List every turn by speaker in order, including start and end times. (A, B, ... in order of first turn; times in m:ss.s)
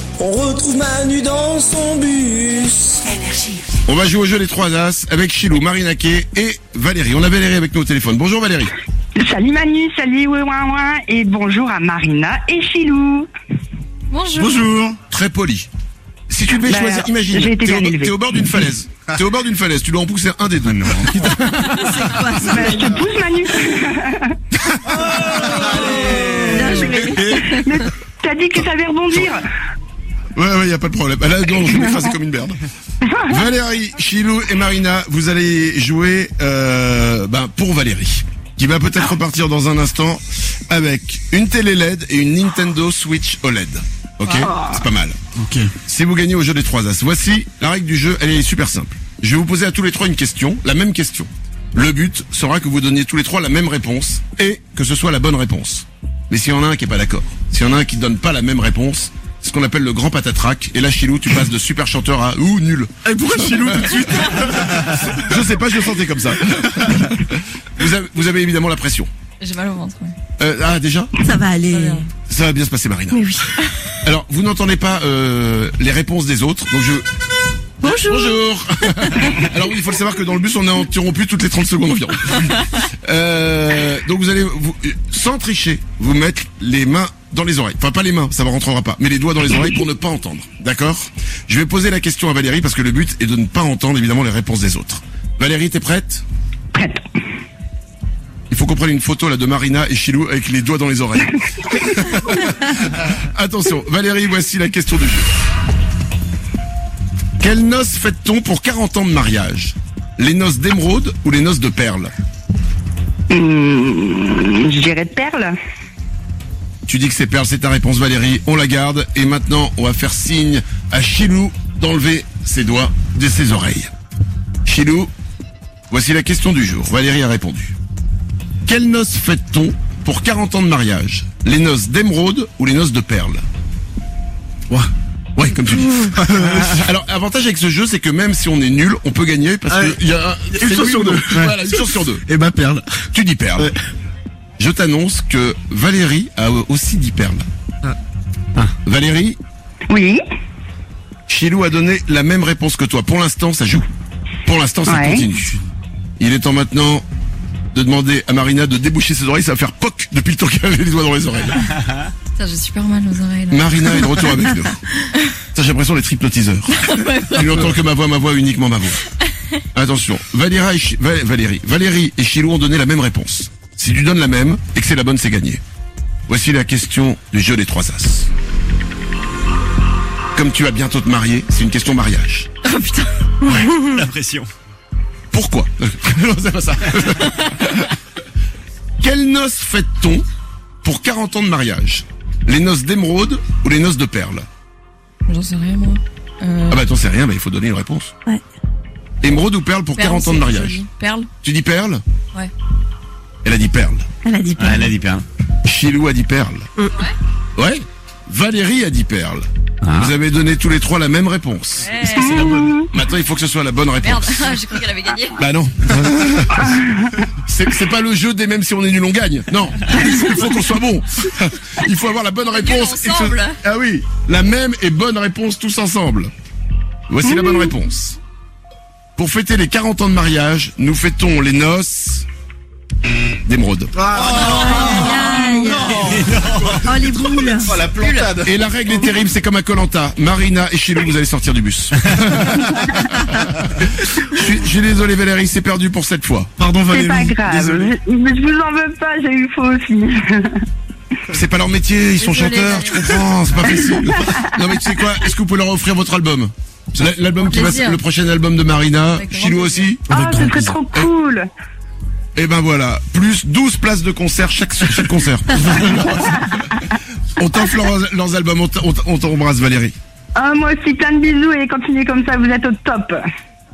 0:00.2-0:03.2 A
0:03.8-0:08.7 B
0:09.2-0:13.3 C
0:14.1-0:14.7 D
0:14.4-0:15.0 E
0:15.1-0:15.7 B
0:16.3-0:22.7 B
0:16.6-0:18.2 C
0:20.9-0:21.8 E
0:21.9-0:22.9 F
0:22.4-0:24.4 C
0:25.0-0:27.8 E
0:25.9-0:27.6 F
0:26.4-0:26.7 C
0:27.6-0:29.4 C
0:30.4-0:32.6 B
0:33.3-0:45.2 B
0:44.2-0:44.5 D
0:45.4-0:45.7 E
0:45.8-1:09.1 B
1:03.1-1:05.3 E
1:09.4-1:10.2 D
1:10.4-1:11.1 B
1:11.2-1:12.0 F
1:11.7-1:12.1 D
1:12.3-1:13.4 B
1:14.0-1:17.1 B
1:17.8-1:18.2 F
1:17.8-1:36.2 B
1:36.7-1:37.0 C
1:38.5-1:45.3 B
1:47.4-1:52.1 B
1:53.3-1:55.5 C
1:56.9-2:03.9 B
2:04.7-2:05.1 B
2:05.9-2:07.8 B
2:08.7-2:13.4 B
2:15.4-2:22.3 B
2:16.2-2:16.8 E
2:19.7-2:20.0 E
2:20.5-2:23.0 E
2:23.1-2:23.7 B
2:24.6-2:27.4 B
2:28.8-2:29.4 B
2:29.9-2:30.2 C
2:31.3-2:33.9 B
2:34.5-2:35.6 B
2:34.9-2:35.3 C
2:36.2-2:37.0 B
2:37.7-2:41.7 B
2:42.4-2:44.3 D
2:43.5-2:44.8 B
2:45.5-2:49.0 B
2:46.7-2:47.7 D
2:49.7-2:55.6 B
2:56.3-2:58.3 B
3:00.4-3:02.5 B
3:02.6-3:03.1 D
3:03.5-3:04.5 E
3:05.3-3:07.9 B
3:09.0-3:10.2 B
3:10.8-3:14.5 B
3:15.3-3:16.8 D
3:16.7-3:18.1 B
3:19.2-3:20.8 B
3:20.0-3:21.3 D
3:21.4-3:22.0 B
3:23.4-3:24.1 B
3:24.2-3:24.9 F
3:24.6-3:25.2 E
3:25.6-3:26.7 B
3:27.6-3:34.6 B
3:29.9-3:30.1 E
3:31.8-3:32.5 D
3:32.1-3:32.8 C
3:32.5-3:32.8 E
3:34.0-3:35.4 D
3:35.4-3:36.9 B
3:37.5-3:46.3 B
3:42.4-3:43.6 D
3:47.1-3:48.2 B
3:49.2-3:52.3 B
3:53.5-3:53.9 B
3:54.0-3:58.6 E
3:54.2-3:56.0 D
3:54.4-3:57.8 F
3:57.8-3:58.4 D
3:58.4-4:03.6 B
4:04.2-4:06.5 B
4:06.6-4:07.9 E
4:06.9-4:10.6 C
4:11.3-4:20.1 B
4:12.2-4:13.3 D
4:17.4-4:18.0 D
4:19.1-4:20.0 D
4:20.1-4:21.5 C
4:20.1-4:20.8 E
4:22.4-4:26.8 B
4:27.4-4:30.0 B
4:30.4-4:33.2 C